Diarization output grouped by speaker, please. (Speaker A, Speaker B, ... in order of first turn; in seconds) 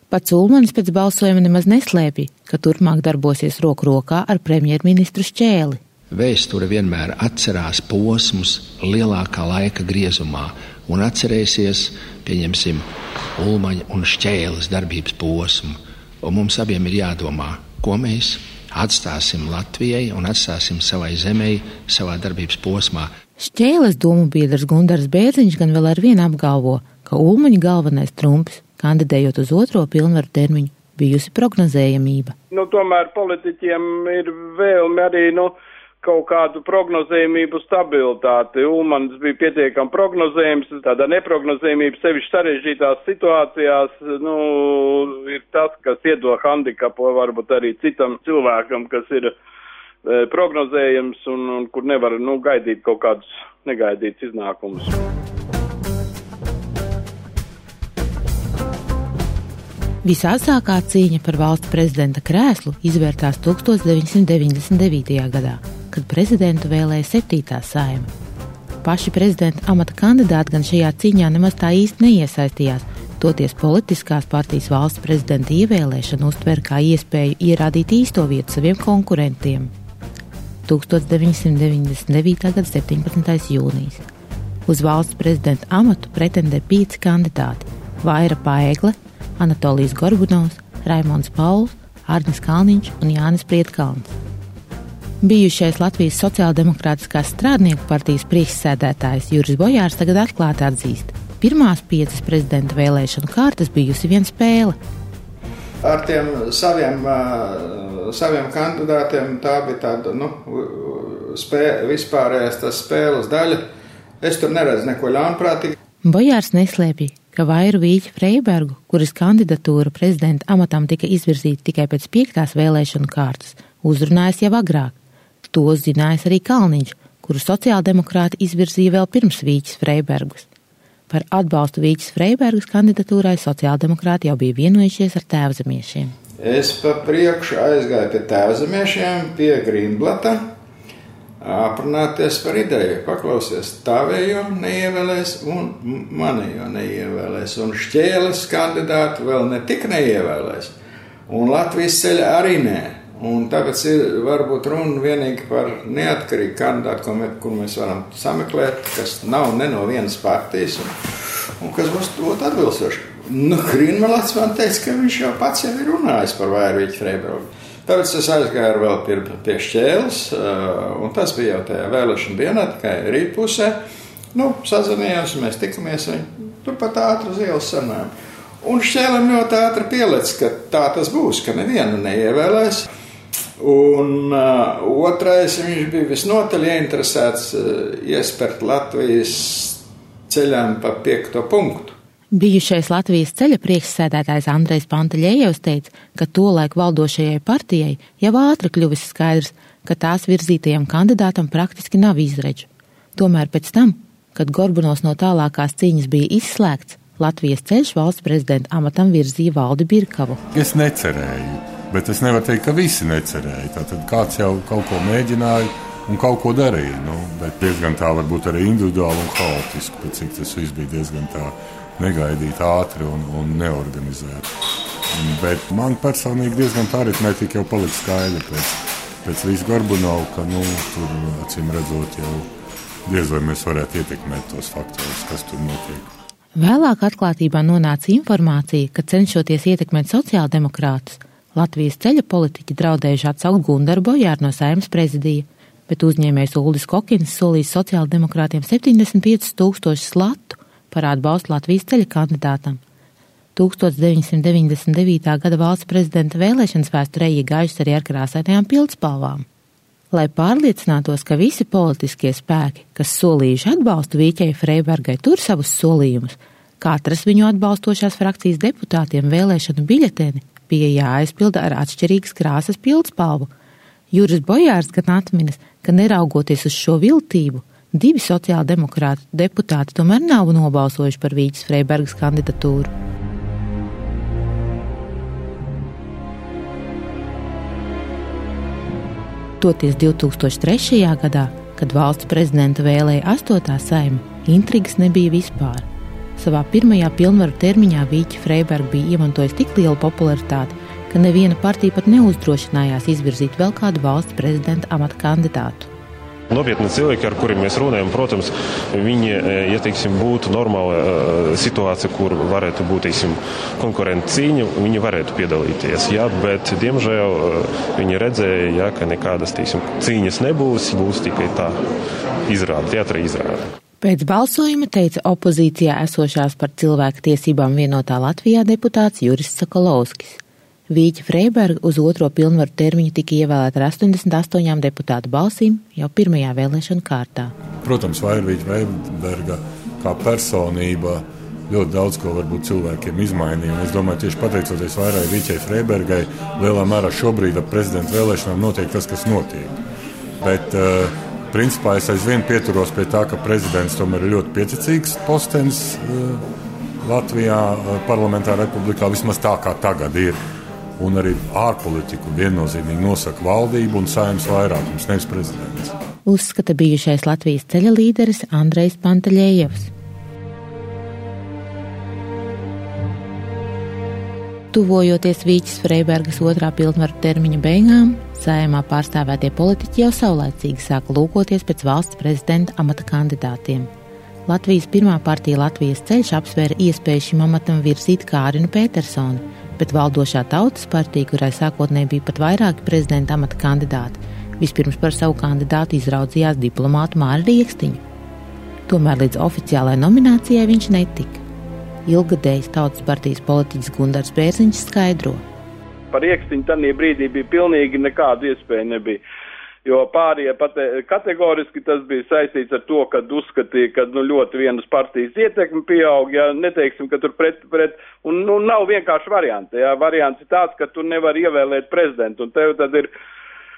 Speaker A: 0.1-5.8, 23.4-32.4, 60.0-68.1, 68.8-79.7, 80.7-84.0, 84.7-94.1, 95.2-104.8, 116.0-125.0, 125.5-130.5, 131.1-136.1, 192.3-210.4, 236.6-252.8, 253.6-259.4, 260.1-273.5, 274.1-282.9, 289.6-295.9, 296.4-305.9, 324.0-337.5, 366.3-369.9, 374.7-383.9, 384.5-398.0, 398.9-401.4, 402.1-405.4
Speaker B: 6.1-23.1
Speaker C: 32.5-49.3, 50.0-54.9, 406.1-409.2, 409.9-423.1
Speaker D: 105.8-113.6, 114.2-115.7, 136.4-140.4, 141.4-150.7, 151.3-160.9, 161.6-173.8, 174.3-178.1, 178.6-182.9, 183.6-191.9
Speaker E: 210.5-224.5, 225.1-232.5, 233.1-236.1, 337.8-349.8, 350.4-356.4, 357.0-360.4, 361.0-365.9
Speaker F: 306.5-321.8, 322.5-323.6